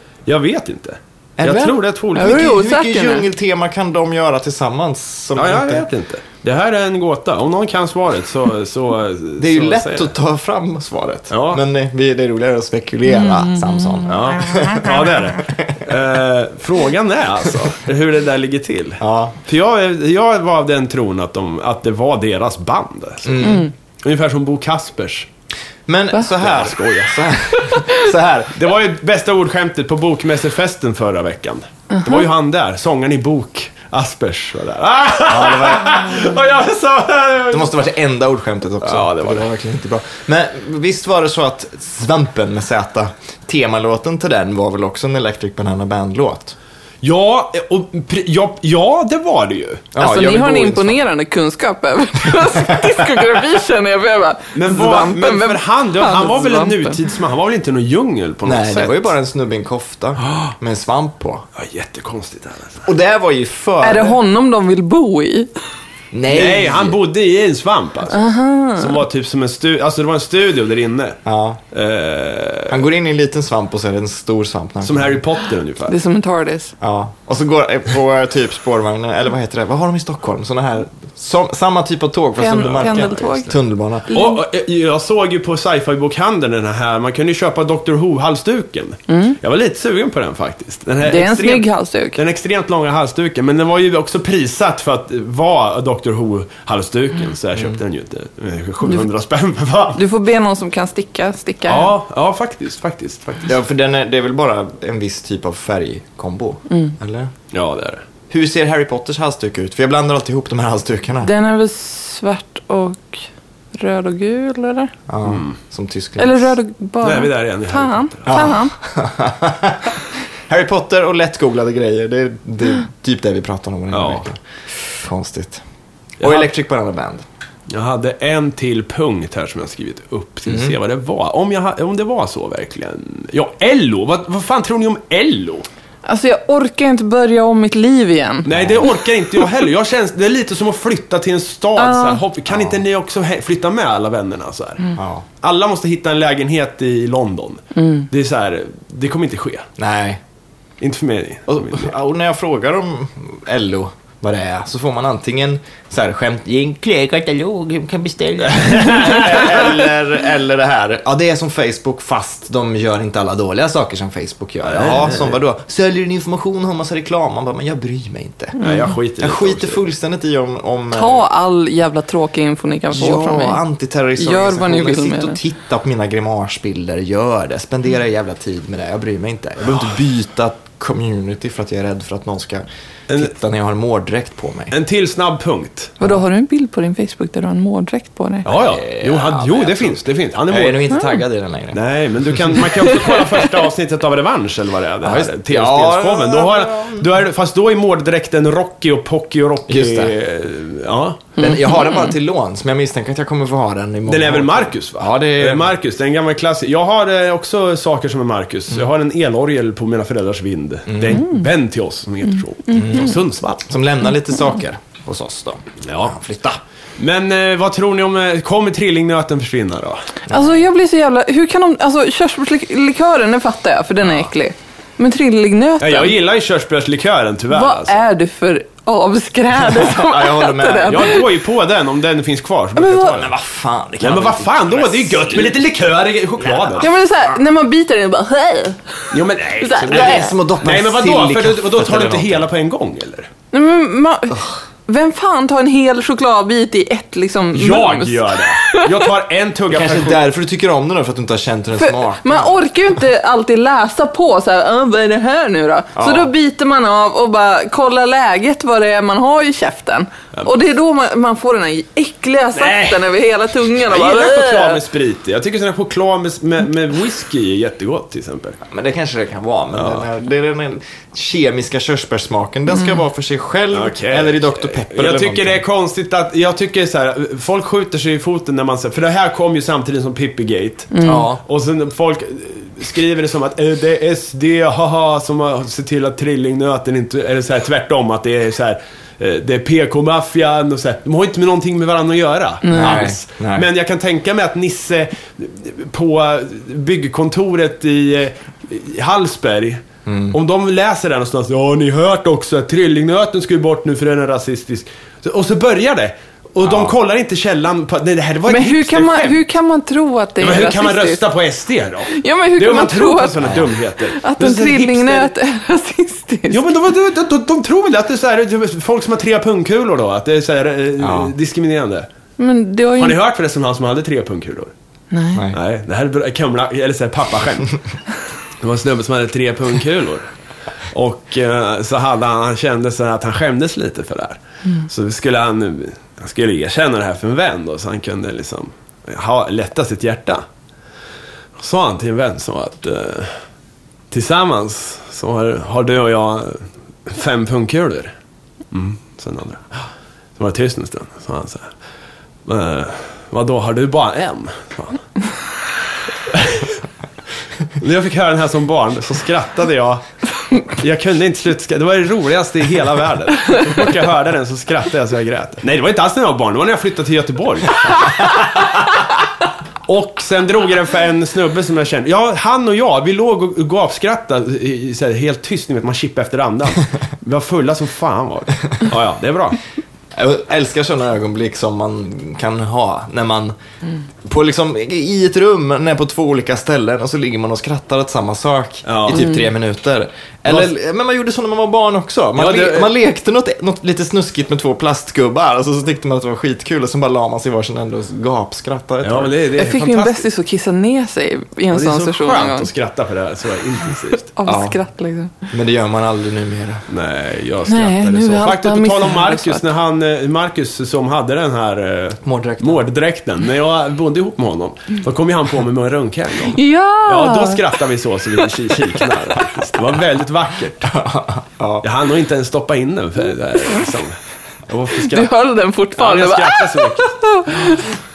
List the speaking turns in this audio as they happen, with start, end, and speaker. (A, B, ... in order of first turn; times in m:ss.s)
0:00.3-0:02.4 A
0:01.4-0:05.9 B
0:02.1-0:03.3 C
0:05.4-0:10.1 A
0:09.4-0:15.9 B
0:11.3-0:11.6 A
0:14.1-0:25.3 A
0:14.5-0:14.8 C
0:19.0-0:19.4 B
0:23.2-0:23.6 B
0:25.9-0:28.5 B
0:26.2-0:27.8 A
0:28.5-0:37.7 A
0:31.9-0:32.2 C
0:35.3-0:36.2 B
0:37.5-0:46.5 B
0:38.8-0:39.5 A
0:47.0-0:49.9 A
0:49.9-0:51.0 B
0:50.0-0:57.0 C
0:52.4-0:53.1 B
0:54.5-0:59.1 A
0:58.4-1:01.4 B
1:00.2-1:00.5 A
1:01.5-1:02.8 A
1:02.8-1:04.2 B
1:03.8-1:05.5 C
1:06.1-1:07.0 B
1:06.3-1:08.2 A
1:08.1-1:09.0 C
1:08.8-1:11.2 A
1:11.2-1:11.6 B
1:11.7-1:12.8 A
1:12.7-1:15.2 B
1:14.8-1:16.0 A
1:15.9-1:16.7 C
1:16.8-1:24.1 B
1:22.4-1:23.5 C
1:22.6-1:22.8 A
1:24.1-1:24.4 C
1:24.1-1:40.0 A
1:29.1-1:29.4 C
1:31.0-1:32.2 C
1:39.9-1:41.9 C
1:41.7-1:43.5 A
1:43.4-1:47.3 B
1:46.7-1:46.9 C
1:47.5-1:48.0 A
1:48.3-1:51.3 B
1:51.2-1:53.2 C
1:53.7-1:54.9 C
1:55.1-1:56.5 B
1:55.2-1:55.6 A
1:56.2-1:58.7 C
1:57.0-1:58.5 A
1:58.2-2:05.6 B
2:03.9-2:04.2 A
2:06.2-2:06.5 A
2:06.2-2:07.2 B
2:07.7-2:15.7 A
2:10.5-2:10.8 B
2:16.0-2:18.9 C
2:18.4-2:29.7 A
2:18.5-2:18.8 B
2:21.8-2:22.2 C
2:22.5-2:22.8 B
2:25.0-2:25.2 B
2:27.8-2:28.1 C
2:29.8-2:30.2 B
2:30.8-2:31.9 A
2:31.5-2:48.6 B
2:38.6-2:39.7 A
2:44.6-2:45.4 A
2:48.6-2:48.9 C
2:48.6-2:49.8 A
2:49.2-2:51.2 B
2:50.9-2:53.6 C
2:52.9-3:04.7 B
2:54.2-2:55.4 C
3:04.7-3:06.0 A
3:06.0-3:08.4 C
3:08.4-3:10.9 A
3:08.5-3:13.0 B
3:11.7-3:21.4 A
3:15.0-3:17.2 B
3:19.7-3:20.2 B
3:21.4-3:25.8 B
3:21.4-3:22.1 C
3:24.1-3:33.6 A
3:30.9-3:31.2 B
3:32.7-3:33.1 C
3:32.8-3:33.1 B
3:33.6-3:36.6 B
3:35.8-3:36.1 A
3:37.0-3:40.0 A
3:40.3-3:40.6 B
3:40.3-3:46.2 C
3:45.8-3:47.9 A
3:47.5-3:51.3 C
3:49.6-3:51.2 B
3:50.8-3:53.3 A
3:52.8-3:53.2 C
3:53.0-3:55.6 B
3:54.0-3:56.9 A
3:56.4-3:57.3 B
3:56.8-3:58.9 C
3:59.1-4:03.3 A
3:59.6-4:00.3 C
3:59.8-4:02.4 B
4:03.5-4:09.1 C
4:07.5-4:10.2 A
4:09.7-4:12.6 B
4:11.8-4:24.8 C
4:15.9-4:16.3 B
4:22.6-4:23.1 A
4:23.7-4:28.6 A
4:28.7-4:35.6 B
4:29.7-4:30.0 A
4:33.7-5:09.4 A
4:40.9-4:41.3 C
4:41.0-4:41.4 B
4:52.6-4:53.1 C
4:52.7-4:53.7 B
5:00.0-5:00.4 B
5:06.6-5:06.9 B
5:08.5-5:11.2 C
5:10.4-5:15.3 A
5:12.1-5:16.6 C
5:13.4-5:13.7 B
5:16.5-5:22.1 A
5:21.0-5:21.3 B
5:22.4-5:23.2 C
5:23.0-5:24.7 A
5:25.1-5:25.4 C
5:25.3-5:25.6 B
5:25.5-5:27.8 A
5:28.6-5:30.3 A
5:30.9-5:40.4 A
5:41.6-5:43.4 A
5:44.1-5:48.1 A
5:48.7-5:49.8 A
5:50.4-5:51.7 A
5:52.4-5:55.1 A
5:56.3-5:56.8 A
5:57.8-6:00.0 A
6:00.6-6:08.5 A
6:09.8-6:19.6 A
6:20.1-6:23.5 B
6:24.2-6:39.4 B
6:28.8-6:29.3 A
6:32.3-6:32.9 A
6:39.0-6:40.2 A
6:39.6-6:42.7 C
6:41.7-6:44.3 A
6:44.3-6:45.3 C
6:44.4-6:44.8 B
6:45.5-6:46.8 B
6:46.9-7:01.0 A
6:47.7-6:49.6 C
6:52.2-6:52.8 B
6:56.5-6:57.6 C
7:00.9-7:01.8 B
7:01.8-7:05.3 A
7:05.0-7:07.9 C
7:05.9-7:07.8 A